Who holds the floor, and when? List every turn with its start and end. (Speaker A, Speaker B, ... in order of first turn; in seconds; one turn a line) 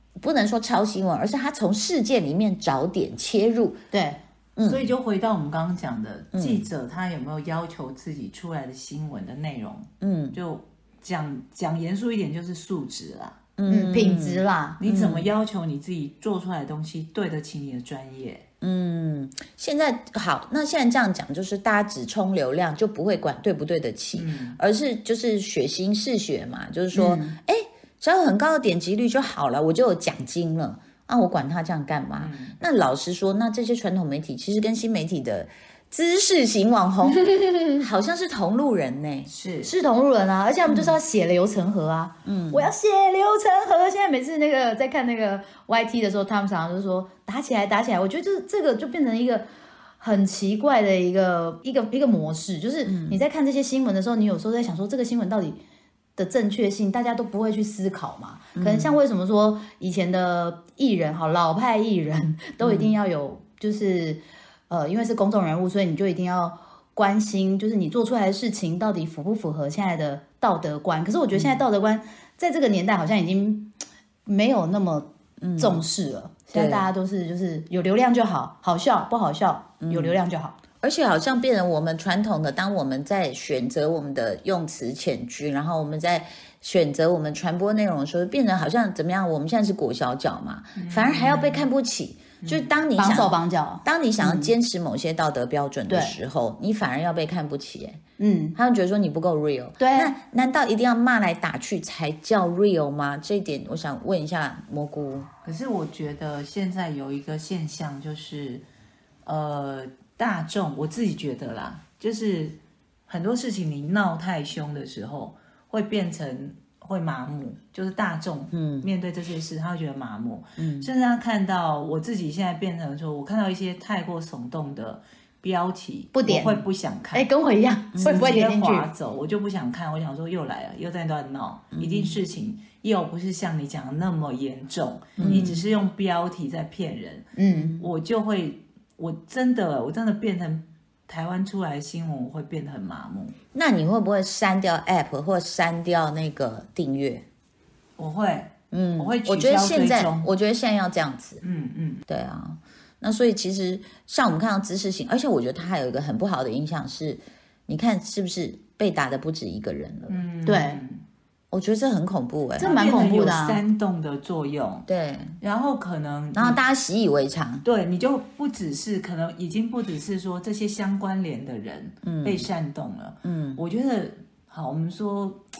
Speaker A: 0.2-3.8
Speaker B: 3.9-4.2
Speaker A: 4.6-4.9
Speaker C: 4.6-13.4
Speaker A: 6.3-6.7
Speaker A: 10.0-10.4
Speaker A: 13.6-15.3
Speaker B: 13.7-14.8
Speaker C: 14.8-18.4
Speaker A: 18.6-39.3
Speaker C: 24.1-24.6
Speaker B: 26.9-27.4
Speaker C: 32.2-32.6
Speaker C: 39.3-39.7
Speaker B: 39.6-49.5
Speaker A: 40.7-41.0
Speaker A: 42.2-42.7
Speaker B: 50.0-55.6
Speaker A: 52.9-53.2
Speaker B: 56.2-80.5
Speaker A: 58.6-58.9
Speaker A: 62.6-63.0
Speaker A: 71.3-71.6
Speaker A: 75.4-75.9
Speaker A: 76.5-76.9
Speaker A: 79.8-80.2
Speaker A: 80.8-98.0
Speaker C: 90.8-91.7
Speaker C: 92.4-92.7
Speaker B: 93.0-94.5
Speaker B: 95.9-96.2
Speaker B: 98.2-98.6
Speaker A: 98.5-105.3
Speaker B: 99.8-100.1
Speaker C: 105.4-108.7
Speaker C: 109.2-127.3
Speaker A: 118.5-118.9
Speaker A: 120.6-120.9
Speaker B: 126.1-128.9
Speaker A: 127.9-128.3
Speaker C: 128.0-143.4
Speaker A: 131.8-132.2
Speaker A: 135.2-135.6
Speaker B: 135.2-135.5
Speaker B: 137.4-137.8
Speaker A: 137.5-137.9
Speaker A: 143.5-147.2
Speaker C: 148.0-150.3
Speaker A: 148.7-151.4
Speaker C: 151.4-152.0
Speaker A: 152.1-160.2
Speaker C: 160.1-161.0
Speaker B: 160.4-160.8
Speaker A: 161.5-162.7
Speaker B: 162.6-163.6
Speaker C: 162.6-164.9
Speaker A: 164.9-165.4
Speaker C: 165.4-166.6
Speaker A: 166.3-167.7
Speaker C: 167.6-175.4
Speaker A: 172.0-172.5
Speaker A: 173.2-173.6